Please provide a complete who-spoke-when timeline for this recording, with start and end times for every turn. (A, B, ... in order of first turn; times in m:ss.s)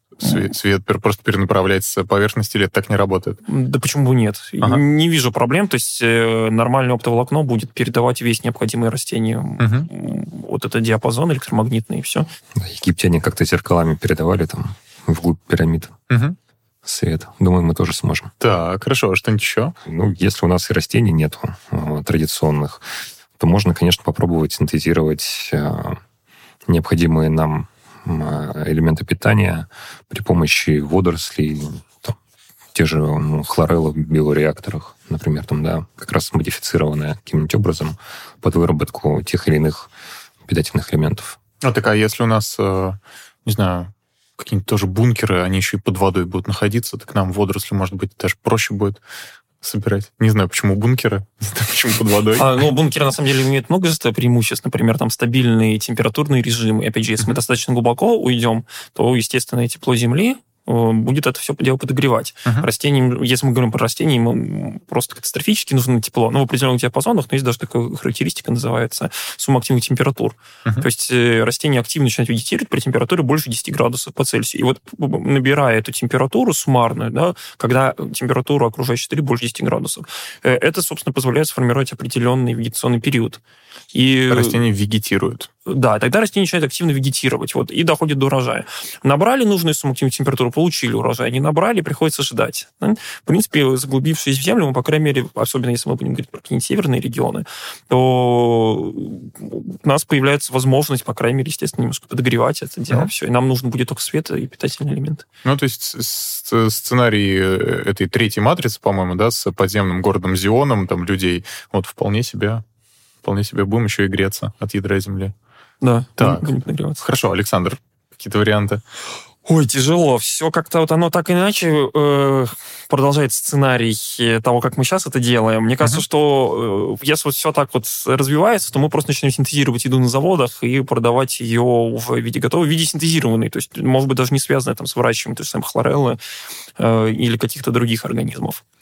0:00.2-0:03.4 A
0:03.5-0:12.3 B
0:09.6-0:09.9 A
0:12.6-0:16.0 C
0:16.1-0:16.4 A
0:16.8-0:18.3 C
0:18.4-0:19.8 A
0:19.9-0:22.9 C
0:23.4-0:26.0 C
0:26.7-0:32.2 C
0:32.7-0:39.9 C
0:40.5-0:41.4 C
0:41.6-0:49.0 A
0:49.6-0:52.5 A
0:52.4-1:23.4 B
1:23.9-1:24.6 B
1:24.3-1:25.5 A
1:25.7-1:45.2 B
1:45.4-1:52.6 A
1:53.2-1:55.3 A
1:55.8-1:57.0 B
1:56.2-1:56.5 A
1:57.0-1:58.8 A
1:59.5-2:16.2 B
2:16.8-2:18.6 B